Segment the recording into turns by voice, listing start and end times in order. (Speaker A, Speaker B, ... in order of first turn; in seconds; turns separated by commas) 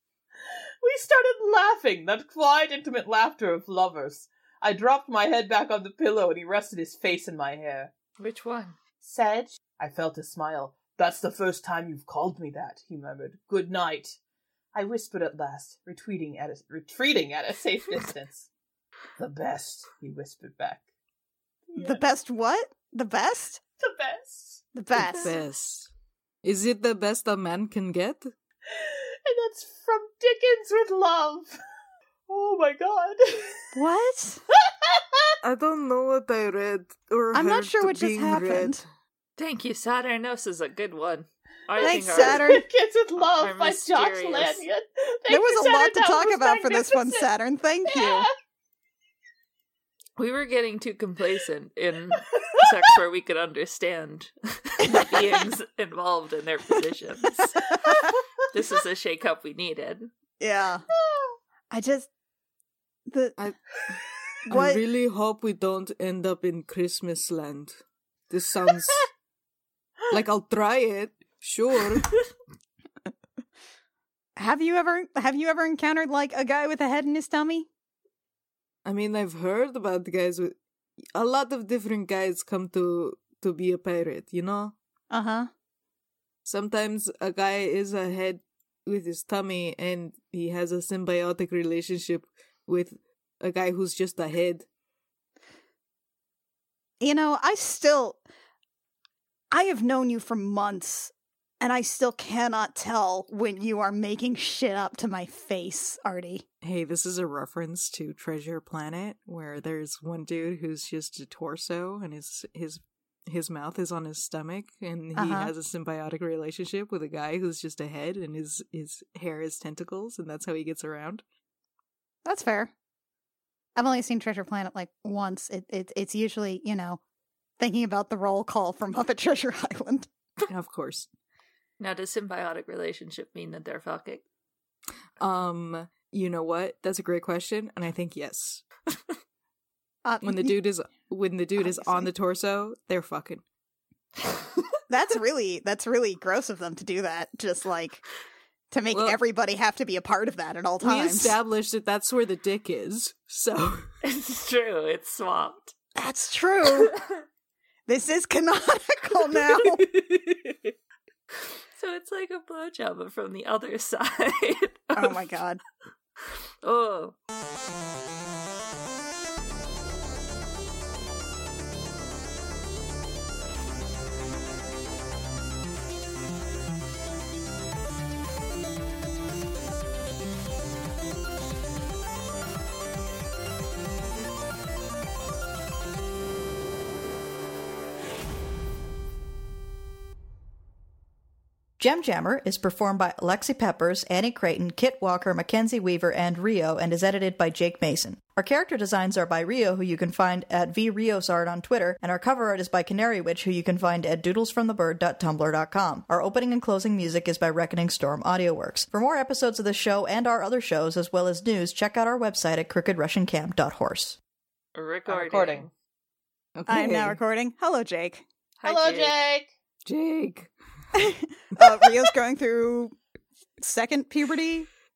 Speaker A: 0.8-7.9, Speaker B: 8.2-8.8, Speaker A: 9.0-14.2, Speaker A: 14.7-18.5, Speaker A: 19.2-20.9, Speaker A: 21.7-22.0, Speaker C: 21.8-23.6, Speaker A: 23.8-24.6, Speaker C: 24.7-25.4, Speaker D: 25.0-25.9, Speaker D: 26.4-28.3, Speaker A: 28.7-31.6, Speaker A: 32.3-33.7, Speaker C: 33.8-34.4, Speaker A: 34.5-35.3, Speaker D: 35.4-38.9, Speaker C: 37.3-38.8, Speaker B: 39.4-42.6, Speaker C: 41.8-42.6, Speaker A: 41.9-47.3, Speaker B: 43.2-44.6, Speaker C: 45.3-48.3, Speaker A: 48.0-48.3, Speaker B: 50.2-60.1, Speaker C: 60.4-60.9, Speaker A: 61.1-61.4, Speaker C: 61.7-62.1, Speaker C: 63.1-63.4, Speaker D: 63.4-64.0, Speaker C: 64.5-64.8, Speaker D: 64.5-67.8, Speaker D: 68.3-69.1, Speaker D: 70.1-72.2, Speaker C: 74.4-77.7, Speaker D: 78.8-80.6, Speaker D: 81.2-84.7, Speaker C: 85.1-85.5, Speaker D: 86.5-94.7, Speaker C: 97.0-98.2, Speaker C: 99.5-106.5, Speaker D: 106.6-121.2, Speaker C: 115.1-115.5, Speaker C: 122.2-122.7, Speaker C: 123.8-127.0, Speaker C: 127.6-130.1, Speaker D: 130.5-131.1, Speaker B: 131.8-134.2, Speaker D: 135.2-138.7, Speaker C: 140.1-140.6, Speaker D: 140.2-143.4, Speaker C: 141.6-142.1, Speaker C: 144.9-148.1, Speaker C: 148.7-151.4, Speaker D: 148.9-149.2, Speaker D: 150.8-153.8, Speaker B: 154.0-155.7, Speaker C: 156.0-156.9, Speaker C: 157.9-159.9, Speaker D: 159.7-160.6, Speaker B: 161.8-165.2, Speaker C: 165.0-165.6, Speaker B: 166.6-167.2, Speaker E: 191.8-214.2, Speaker B: 214.8-215.7, Speaker A: 215.1-215.7, Speaker D: 216.6-217.2, Speaker C: 216.7-218.2, Speaker B: 218.6-219.2, Speaker A: 218.6-219.5, Speaker D: 219.9-220.5, Speaker C: 221.0-222.9, Speaker D: 221.6-222.0, Speaker C: 223.6-224.7